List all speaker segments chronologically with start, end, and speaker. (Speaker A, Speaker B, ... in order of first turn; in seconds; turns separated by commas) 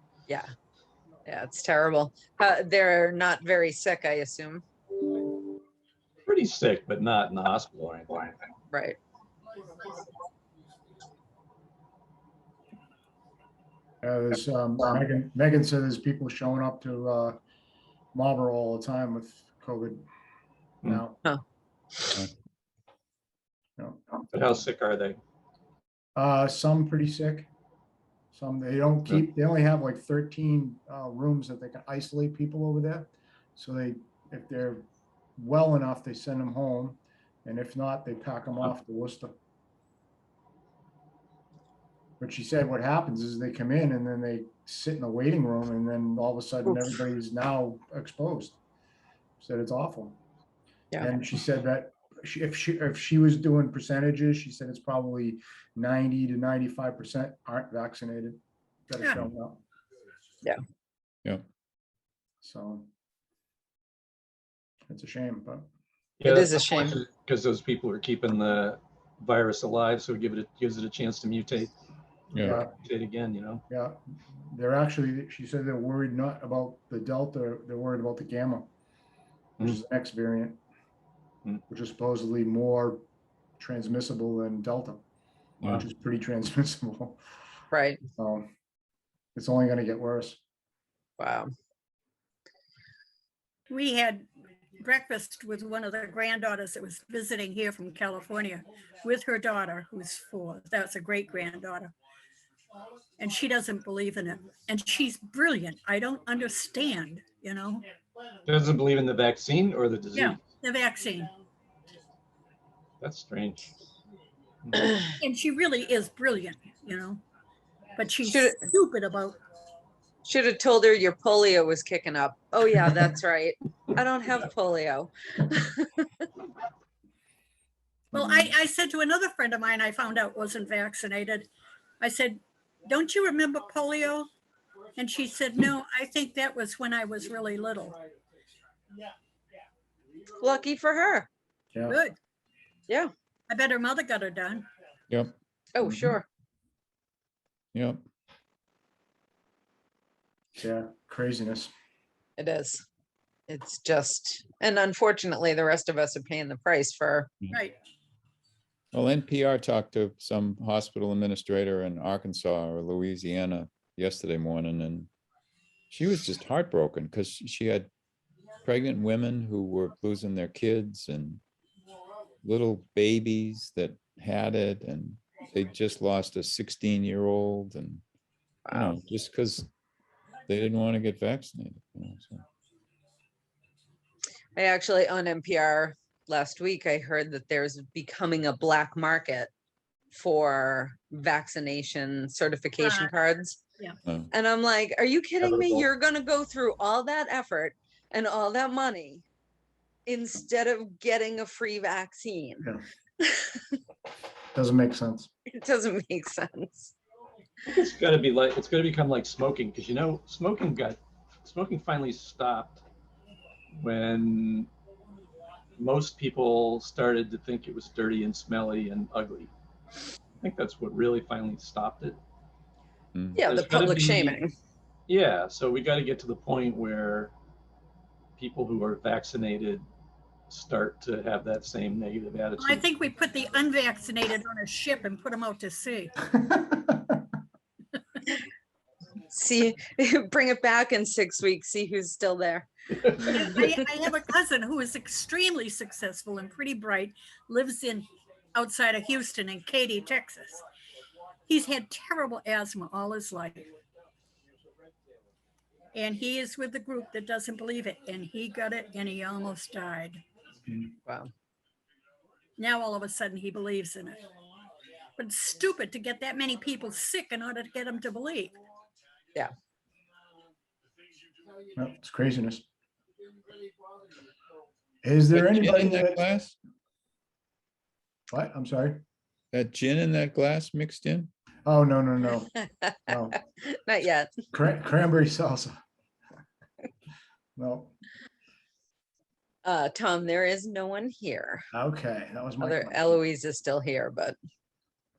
Speaker A: 1.2-4.6, Speaker B: 6.3-8.5, Speaker A: 8.7-9.0, Speaker C: 14.0-17.4, Speaker C: 18.1-20.1, Speaker C: 20.8-21.2, Speaker C: 23.8-24.2, Speaker B: 24.3-25.2, Speaker C: 26.2-27.5, Speaker C: 28.3-39.3, Speaker C: 42.2-48.6, Speaker C: 49.4-50.2, Speaker C: 51.0-59.6, Speaker C: 62.4-62.9, Speaker C: 64.9-65.7, Speaker B: 66.2-71.7, Speaker A: 66.2-67.0, Speaker D: 72.3-72.6, Speaker C: 72.4-72.7, Speaker B: 72.5-73.6, Speaker C: 73.7-78.7, Speaker C: 79.6-80.6, Speaker C: 81.7-83.0, Speaker C: 83.6-85.0, Speaker C: 85.7-87.2, Speaker A: 87.7-88.0, Speaker C: 88.2-88.5, Speaker C: 89.3-90.4, Speaker A: 91.2-91.5, Speaker E: 93.7-94.3, Speaker E: 94.8-101.9, Speaker E: 103.2-107.9, Speaker B: 108.5-110.4, Speaker E: 110.1-111.3, Speaker B: 113.0-113.7, Speaker E: 115.2-117.2, Speaker E: 118.0-119.4, Speaker A: 118.2-118.5, Speaker A: 120.2-126.1, Speaker E: 128.1-131.5, Speaker E: 132.0-134.3, Speaker E: 135.0-138.0, Speaker A: 140.4-141.3, Speaker C: 141.7-142.0, Speaker E: 141.9-142.2, Speaker E: 143.5-144.7, Speaker D: 145.1-145.3, Speaker A: 145.7-146.2, Speaker C: 145.8-146.1, Speaker D: 147.7-148.0, Speaker C: 150.6-151.7, Speaker A: 152.4-152.8, Speaker A: 153.5-157.3, Speaker E: 157.5-157.8, Speaker D: 158.9-165.1, Speaker D: 165.9-167.9, Speaker D: 168.6-171.4, Speaker D: 172.4-178.0, Speaker A: 178.7-179.0, Speaker D: 178.7-179.7, Speaker D: 180.5-182.4, Speaker A: 184.6-189.5, Speaker A: 190.1-193.6, Speaker E: 192.8-193.1, Speaker A: 194.3-199.2, Speaker B: 195.4-195.8, Speaker A: 200.1-202.7, Speaker A: 203.2-203.7, Speaker C: 204.5-205.3, Speaker A: 205.5-206.9, Speaker B: 207.7-212.8, Speaker B: 213.8-214.7, Speaker B: 215.8-219.5, Speaker B: 220.4-222.2, Speaker D: 223.2-223.4, Speaker A: 223.3-224.5, Speaker B: 223.4-224.4, Speaker B: 225.1-227.3, Speaker B: 228.4-229.8, Speaker B: 230.5-232.8, Speaker E: 232.6-236.1, Speaker C: 236.5-237.2, Speaker A: 239.3-242.7, Speaker E: 243.2-250.6, Speaker E: 251.5-253.7, Speaker E: 255.9-260.2, Speaker E: 262.6-264.2, Speaker E: 265.2-268.6, Speaker C: 271.8-272.6, Speaker C: 275.0-276.2, Speaker D: 275.3-276.6, Speaker C: 278.3-279.0, Speaker D: 279.5-281.3, Speaker C: 281.6-283.4, Speaker A: 283.6-284.3, Speaker C: 284.5-285.8, Speaker C: 287.6-287.9, Speaker A: 289.6-291.6, Speaker C: 291.7-293.2, Speaker A: 292.6-294.4